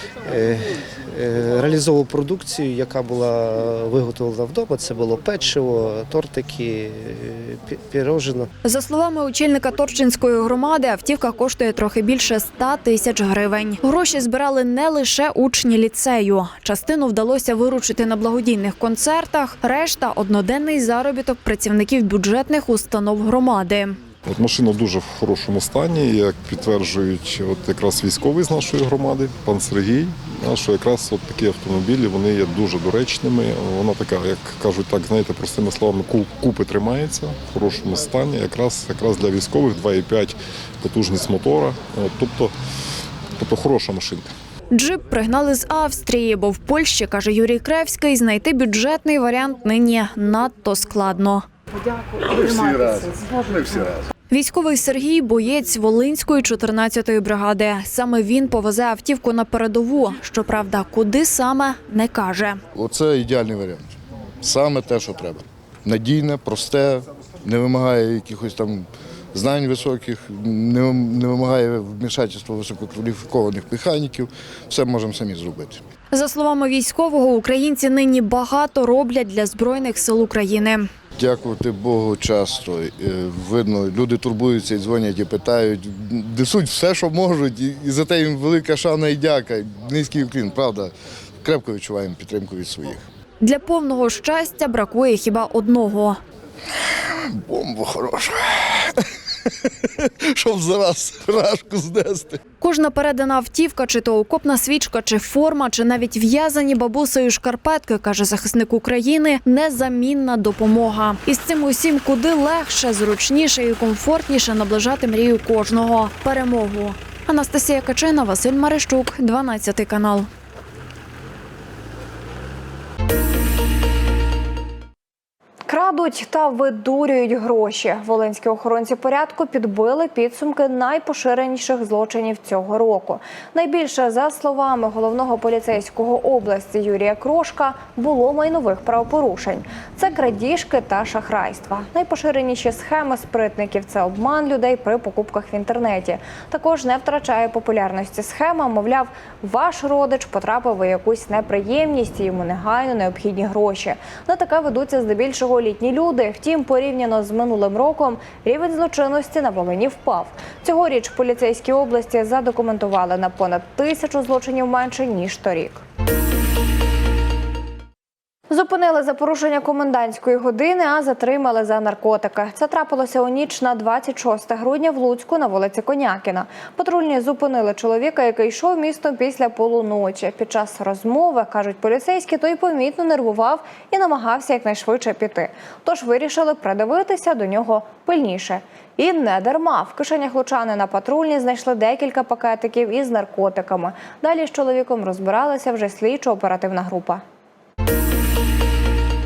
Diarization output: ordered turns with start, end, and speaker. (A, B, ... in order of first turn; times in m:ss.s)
0:00.2-0:08.5 A
0:08.6-0:24.0 B
0:24.3-0:42.5 C
0:43.4-0:44.3 C
0:44.7-0:51.5 B
0:52.3-0:54.0 D
0:54.3-1:02.6 B
1:02.7-1:15.8 D
1:16.1-1:20.9 B
1:21.2-1:33.1 D
1:33.4-1:36.2 B
1:37.2-1:39.0 D
1:39.6-1:42.4 D
1:42.6-2:00.3 B
2:05.7-2:45.8 E
2:48.5-3:17.2 E